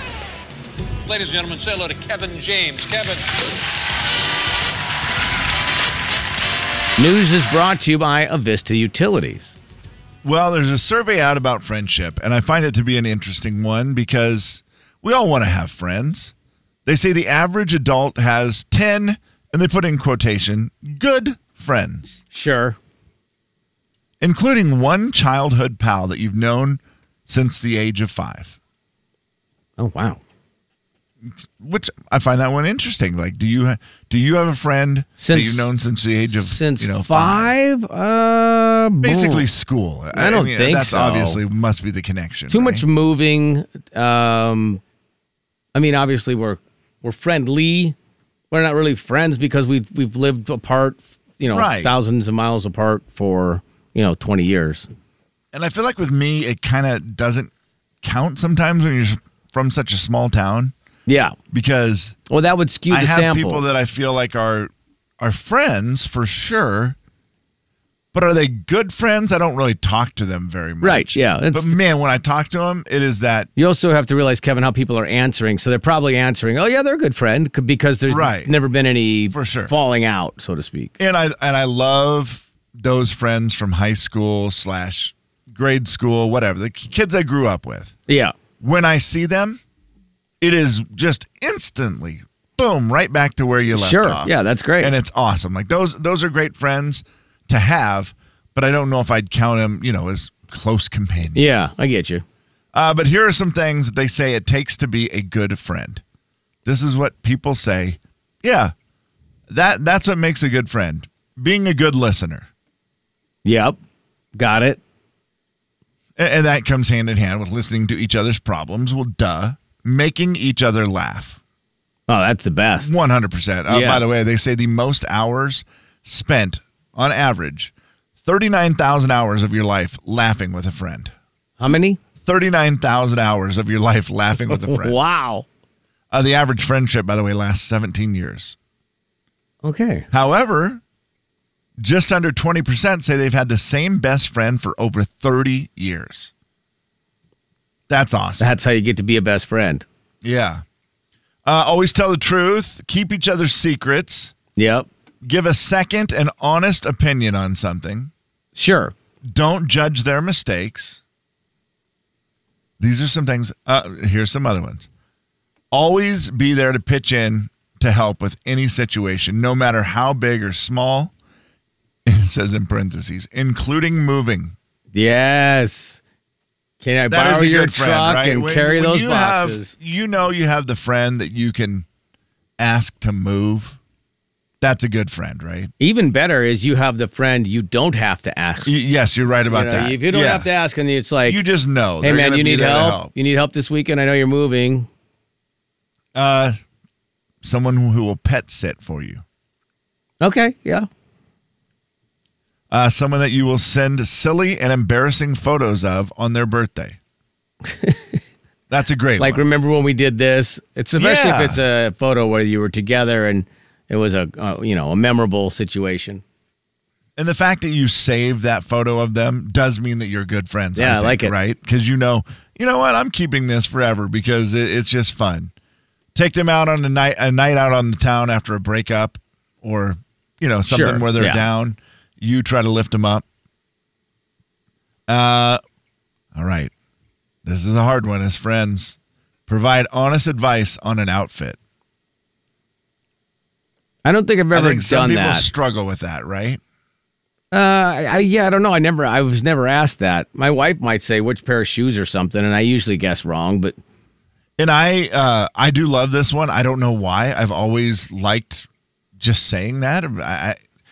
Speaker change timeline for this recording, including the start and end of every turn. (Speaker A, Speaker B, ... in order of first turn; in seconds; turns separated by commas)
Speaker A: 1.1-3.3, Speaker B: 7.0-9.6, Speaker C: 10.2-16.3, Speaker C: 16.9-22.2, Speaker B: 22.3-22.8, Speaker C: 24.2-28.6, Speaker B: 29.8-30.2, Speaker C: 31.2-37.5, Speaker B: 35.2-35.7, Speaker B: 36.3-39.5, Speaker C: 39.0-42.8, Speaker B: 40.1-41.4, Speaker B: 42.5-44.8, Speaker B: 45.7-47.9, Speaker B: 48.5-54.9, Speaker C: 51.5-51.9, Speaker C: 55.5-57.5, Speaker C: 58.0-60.7, Speaker B: 61.0-61.4, Speaker C: 61.5-62.2, Speaker B: 62.3-63.6, Speaker C: 62.9-67.0, Speaker C: 68.1-73.5, Speaker B: 70.8-71.8, Speaker B: 73.6-81.0, Speaker C: 78.1-78.5, Speaker C: 79.3-79.7, Speaker C: 81.0-88.0, Speaker B: 88.1-88.3, Speaker C: 88.6-89.6, Speaker C: 90.4-101.4, Speaker B: 93.7-94.9, Speaker B: 101.3-102.2, Speaker C: 102.7-106.0, Speaker C: 106.6-108.7, Speaker C: 109.5-112.5, Speaker B: 113.4-113.8, Speaker B: 114.3-114.8, Speaker C: 116.2-121.4, Speaker B: 122.1-122.9, Speaker C: 122.8-127.7, Speaker B: 123.7-124.0, Speaker C: 128.2-131.1, Speaker B: 131.6-132.0, Speaker C: 132.2-135.0, Speaker B: 134.5-135.4, Speaker C: 136.1-138.6, Speaker B: 139.6-140.1, Speaker C: 140.1-140.8, Speaker C: 141.8-146.3, Speaker C: 147.9-148.5, Speaker B: 148.4-149.8, Speaker C: 150.2-150.6, Speaker C: 151.4-154.3, Speaker B: 154.6-154.9, Speaker C: 155.2-158.1, Speaker B: 158.6-158.9, Speaker C: 159.3-161.0, Speaker C: 162.8-164.9, Speaker C: 165.7-171.1, Speaker C: 172.1-174.6, Speaker B: 174.9-176.0, Speaker B: 176.8-179.7, Speaker C: 177.1-181.8, Speaker C: 182.6-183.8, Speaker C: 184.6-185.7, Speaker B: 185.8-188.7, Speaker C: 188.7-190.5, Speaker B: 189.5-191.4, Speaker C: 191.2-193.1, Speaker B: 192.0-194.9, Speaker C: 196.1-196.6, Speaker C: 197.4-199.2, Speaker B: 200.2-200.9, Speaker C: 202.7-207.0, Speaker B: 207.7-208.2, Speaker C: 208.7-209.4, Speaker B: 209.2-216.2, Speaker C: 211.0-211.6, Speaker C: 217.2-225.5, Speaker B: 220.8-221.3, Speaker C: 226.1-233.2, Speaker B: 230.7-231.5, Speaker C: 235.1-235.6, Speaker C: 236.3-236.7, Speaker C: 237.4-241.6, Speaker B: 244.0-245.4, Speaker C: 244.5-246.6, Speaker B: 247.5-253.8, Speaker C: 254.6-258.7, Speaker C: 259.2-260.6